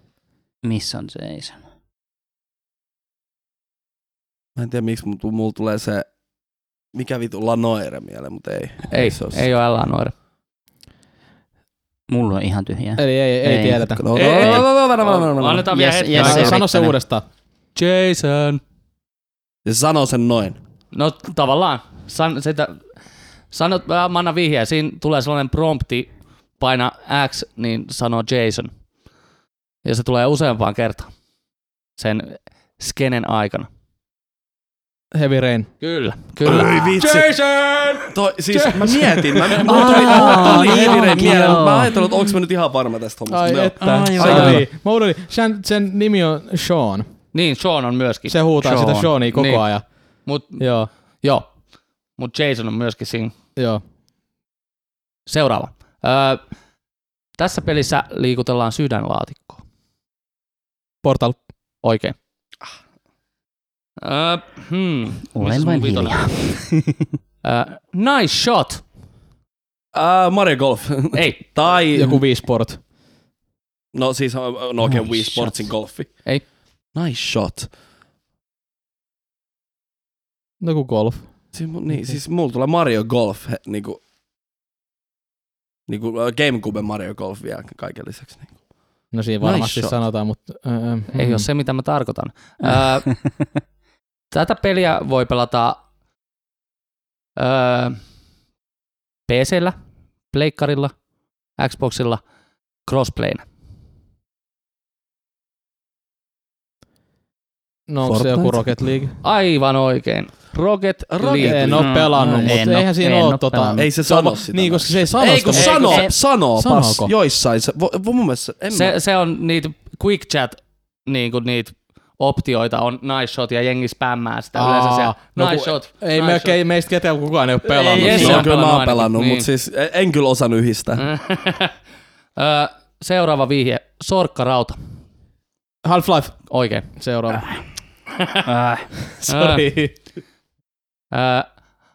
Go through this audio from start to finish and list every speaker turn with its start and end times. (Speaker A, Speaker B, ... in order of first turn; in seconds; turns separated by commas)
Speaker A: 0.6-1.6, Speaker B: 4.6-6.1, Speaker B: 6.9-9.5, Speaker C: 8.9-10.1, Speaker A: 12.1-13.8, Speaker D: 13.0-14.0, Speaker B: 13.9-15.7, Speaker C: 14.1-16.6, Speaker A: 15.7-17.0, Speaker D: 16.1-17.2, Speaker C: 17.8-18.6, Speaker B: 19.6-20.6, Speaker C: 20.9-22.8, Speaker C: 23.5-28.7, Speaker C: 29.8-31.1, Speaker C: 32.0-33.7, Speaker D: 35.1-35.7, Speaker C: 35.8-37.2, Speaker B: 36.4-37.3, Speaker D: 36.7-41.5, Speaker B: 38.1-44.6, Speaker A: 39.6-42.0, Speaker C: 39.9-41.5, Speaker D: 43.3-47.1, Speaker A: 43.8-44.6, Speaker C: 47.3-48.4, Speaker D: 48.3-49.9, Speaker A: 48.6-49.1, Speaker C: 49.3-49.6, Speaker C: 50.2-50.6, Speaker D: 50.6-50.9, Speaker C: 52.2-53.3, Speaker D: 53.6-53.8, Speaker C: 55.3-56.4, Speaker C: 57.4-59.6, Speaker D: 61.0-61.4, Speaker C: 61.8-62.2, Speaker C: 64.0-66.4, Speaker A: 65.3-67.0, Speaker C: 67.4-68.8, Speaker B: 69.9-72.2, Speaker C: 71.1-71.4, Speaker D: 71.9-72.8, Speaker B: 73.9-76.3, Speaker A: 75.2-75.5, Speaker B: 77.0-77.7, Speaker D: 80.6-82.2, Speaker B: 81.5-84.0, Speaker B: 85.9-88.5, Speaker D: 89.1-91.5, Speaker B: 89.4-90.0, Speaker C: 91.1-93.1, Speaker A: 92.6-93.3, Speaker C: 94.3-95.8, Speaker C: 97.4-98.0, Speaker C: 99.3-99.8, Speaker C: 100.3-100.9, Speaker C: 101.6-102.2, Speaker C: 102.9-103.4, Speaker D: 107.9-109.2, Speaker B: 108.0-108.5, Speaker C: 109.2-111.8, Speaker B: 111.1-112.5, Speaker D: 111.4-117.1, Speaker A: 111.8-113.9, Speaker B: 113.8-119.0, Speaker C: 115.5-116.0, Speaker A: 115.8-116.1, Speaker C: 118.7-126.6, Speaker D: 124.6-128.5, Speaker A: 127.7-128.4, Speaker C: 127.9-129.5, Speaker B: 128.0-131.1, Speaker C: 131.0-131.7, Speaker C: 132.4-134.8, Speaker D: 135.8-136.4, Speaker C: 136.5-136.9, Speaker D: 136.9-137.6, Speaker A: 138.4-138.9, Speaker D: 139.1-139.9, Speaker C: 139.3-139.7, Speaker C: 141.1-141.5